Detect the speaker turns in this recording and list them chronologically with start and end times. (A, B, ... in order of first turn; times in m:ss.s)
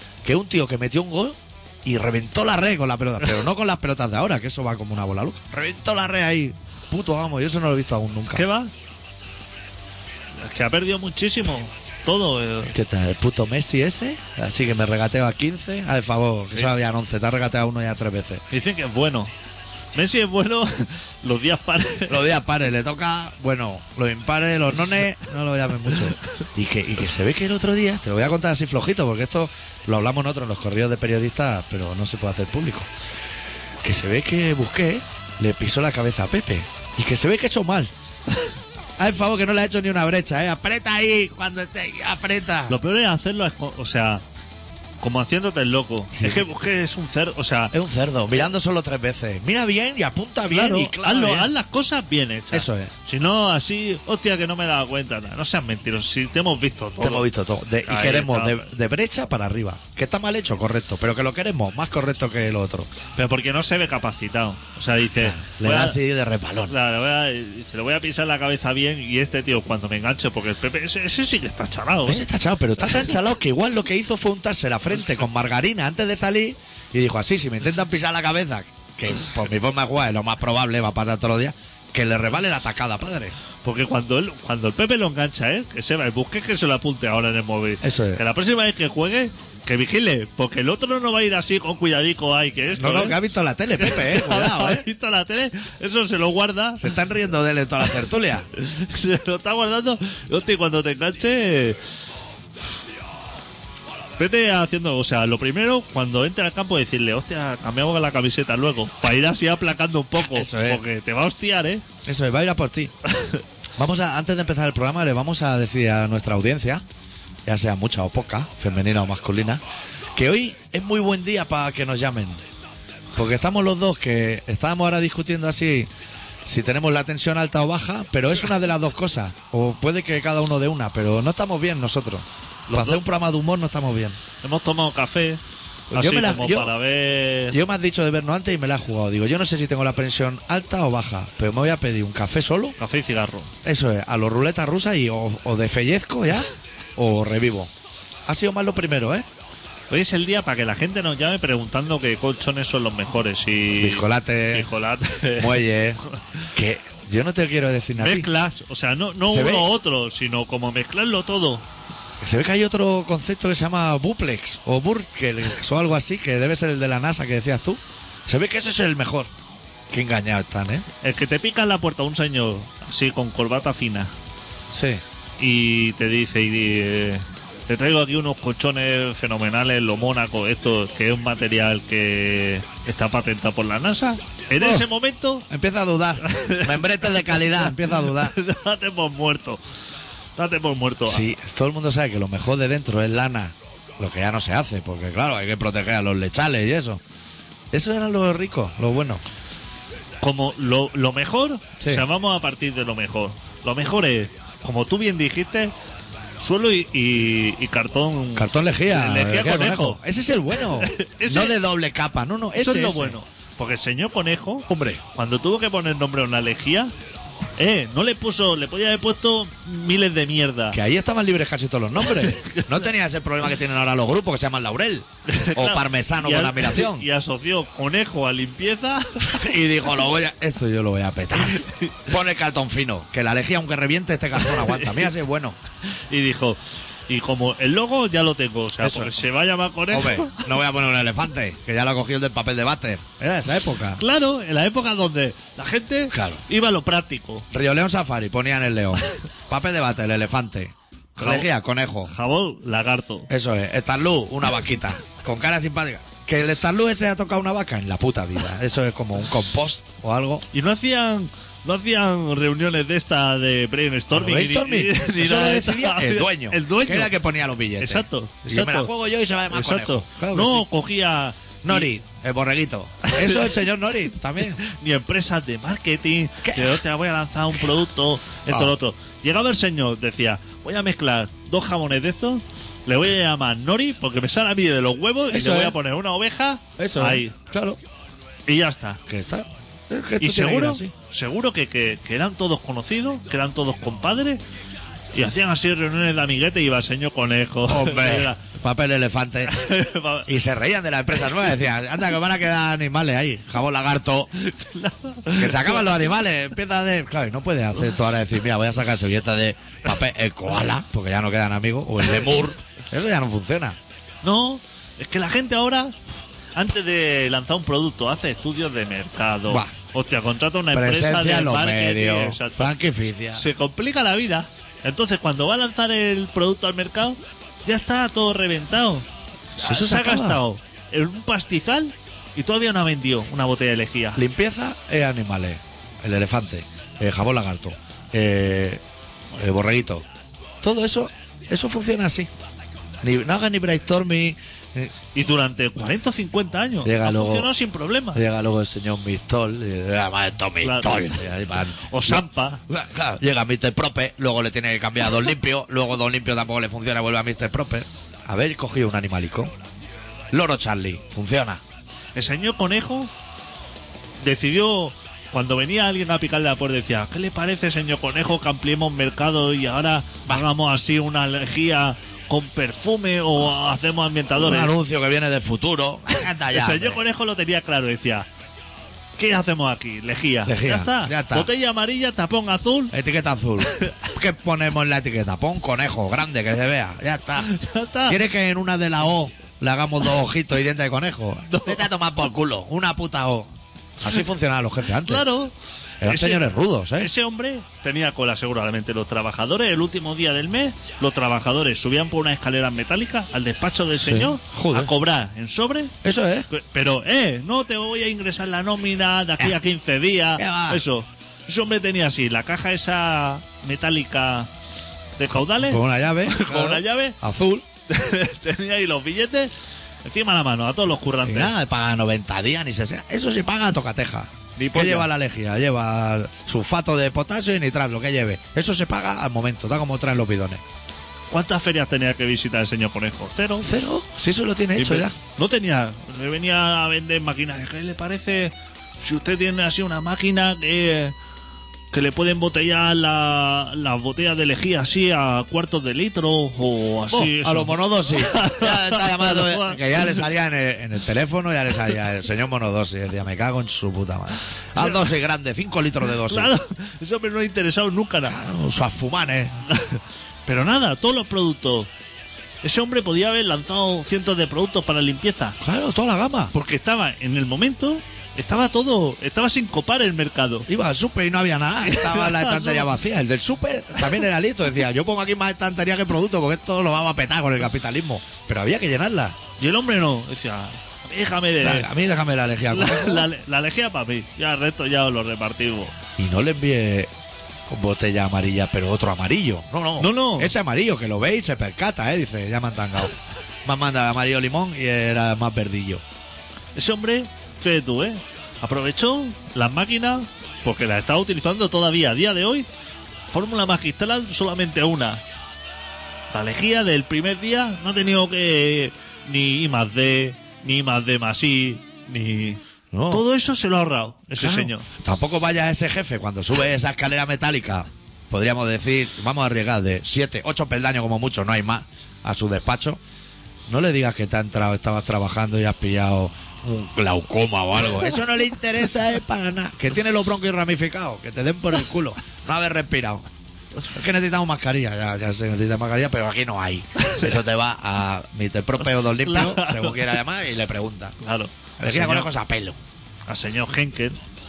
0:00.2-0:08.5 A
0:08.3-0:08.7 B
0:10.4-0:12.7 B
0:12.7-0:18.4 A
0:18.5-0:19.3 B
0:19.9-0:22.2 B
0:22.1-0:32.9 A
0:25.9-0:26.4 B
0:33.8-0:37.9 A
0:39.0-0:42.8 A
0:42.7-0:44.2 B
0:45.0-0:47.7 B
0:46.2-0:46.4 A
0:47.7-0:51.5 A
0:50.5-0:57.3 B
0:52.5-0:52.9 A
0:57.0-1:02.9 A
0:57.8-0:58.6 B
1:03.2-1:06.0 B
1:05.1-1:06.8 A
1:06.7-1:12.3 B
1:12.0-1:23.3 A
1:23.6-1:33.2 B
1:27.8-1:28.2 A
1:32.8-1:34.8 A
1:33.8-1:36.9 B
1:36.8-1:38.4 A
1:38.6-1:41.8 B
1:44.2-1:51.8 B
1:50.2-1:50.8 A
1:52.0-1:52.9 A
1:53.1-1:53.4 B
1:53.8-1:56.8 A
1:57.4-1:59.6 A
2:00.1-2:02.4 A
2:03.1-2:05.9 A
2:06.4-2:14.2 A
2:12.7-2:13.0 B
2:14.4-2:15.4 B
2:15.9-2:16.7 A
2:15.9-2:17.6 B
2:17.5-2:22.8 A
2:22.8-2:23.5 B
2:23.6-2:27.7 A
2:28.2-2:29.3 A
2:29.9-2:36.2 B
2:33.7-2:34.7 A
2:35.4-2:36.0 A
2:36.5-2:38.3 A
2:38.0-2:41.6 B
2:39.3-2:39.7 A
2:42.2-2:49.3 A
2:49.9-2:50.8 A
2:51.0-2:54.1 B
2:54.7-2:55.0 A
2:55.4-3:05.4 B
3:04.5-3:04.9 A
3:05.5-3:08.4 A
3:06.2-3:09.6 B
3:10.4-3:11.3 B
3:11.0-3:17.0 A
3:17.7-3:19.2 A
3:20.2-3:25.7 B
3:21.8-3:22.1 A
3:26.4-3:30.0 B
3:28.3-3:33.2 A
3:30.7-3:31.6 B
3:32.6-3:36.9 B
3:34.7-3:35.0 A
3:37.6-3:40.8 B
3:40.7-3:47.1 A
3:42.1-3:42.9 B
3:45.3-3:49.5 B
3:49.2-3:55.6 A
3:51.4-3:52.0 B
3:54.4-3:55.1 B
3:55.9-4:00.5 B
3:58.8-3:59.1 A
3:59.9-4:04.0 A
4:04.0-4:07.5 B
4:06.1-4:06.4 A
4:07.5-4:12.1 A
4:11.2-4:11.5 B
4:12.1-4:13.3 B
4:13.3-4:20.4 A
4:20.5-4:27.1 B
4:24.1-4:30.7 A
4:27.8-4:28.9 B
4:29.5-4:31.9 B
4:31.6-4:34.6 A
4:33.0-4:33.6 B
4:34.4-4:47.4 B
4:36.4-4:36.8 A
4:38.5-4:38.7 A
4:45.3-4:45.8 A
4:46.8-4:47.8 A
4:48.5-4:49.0 B
4:49.1-4:50.9 A
4:50.2-4:54.4 B
4:55.1-4:58.4 B
4:57.7-4:59.6 A
4:59.5-5:00.3 B
5:00.2-5:04.3 A
5:04.4-5:06.0 B
5:05.3-5:13.8 A
5:14.2-5:15.9 B
5:16.5-5:22.7 B
5:19.5-5:19.7 A
5:20.7-5:23.4 A
5:23.4-5:29.0 B
5:29.6-5:30.4 A
5:29.6-5:34.2 B
5:34.1-5:38.8 A
5:39.3-5:40.0 A
5:40.6-5:42.3 A
5:43.0-5:44.9 A
5:45.1-5:48.2 B
5:46.8-5:47.5 A
5:48.1-5:59.5 A
5:50.6-5:51.2 B
5:51.9-5:52.6 B
6:00.3-6:01.6 A
6:02.1-6:03.1 B
6:04.2-6:14.7 B
6:14.4-6:17.0 A
6:16.5-6:18.3 B
6:19.2-6:22.9 B
6:20.4-6:21.5 A
6:22.9-6:27.5 A
6:23.7-6:24.0 B
6:27.4-6:28.2 B
6:28.1-6:33.5 A
6:31.5-6:31.8 B
6:34.0-6:35.3 A
6:35.0-6:36.4 B
6:36.0-6:37.1 A
6:37.0-6:45.9 B
6:44.0-6:44.9 A
6:46.0-6:46.5 A
6:46.5-6:54.5 B
6:50.4-6:50.8 A
6:55.2-6:57.2 B
6:55.6-6:57.6 A
6:57.9-6:59.5 B
7:00.0-7:01.5 B
7:01.2-7:10.6 A
7:04.6-7:05.1 B
7:11.3-7:13.7 B
7:13.6-7:15.1 A
7:14.8-7:21.1 B
7:21.9-7:30.2 B
7:27.1-7:36.5 A
7:34.8-7:35.1 B
7:36.2-7:38.4 B
7:38.2-7:39.6 A
7:39.7-7:41.9 B
7:42.6-7:45.6 B
7:45.6-7:46.5 A
7:46.5-7:50.7 B
7:50.7-7:59.4 A
7:51.8-7:52.9 B
7:59.6-8:01.9 B
8:01.6-8:03.3 A
8:02.7-8:05.9 B
8:06.2-8:07.1 A
8:07.7-8:13.1 A
8:10.0-8:10.5 B
8:13.6-8:16.0 A
8:16.7-8:22.7 B
8:23.3-8:25.2 B
8:26.3-8:34.9 B
8:32.9-8:33.2 A
8:34.4-8:43.0 A
8:43.7-8:53.2 A
8:53.9-9:01.2 A
8:57.0-8:57.3 B
8:59.2-9:00.1 B
9:01.2-9:02.3 B
9:01.8-9:02.8 A
9:03.3-9:04.2 B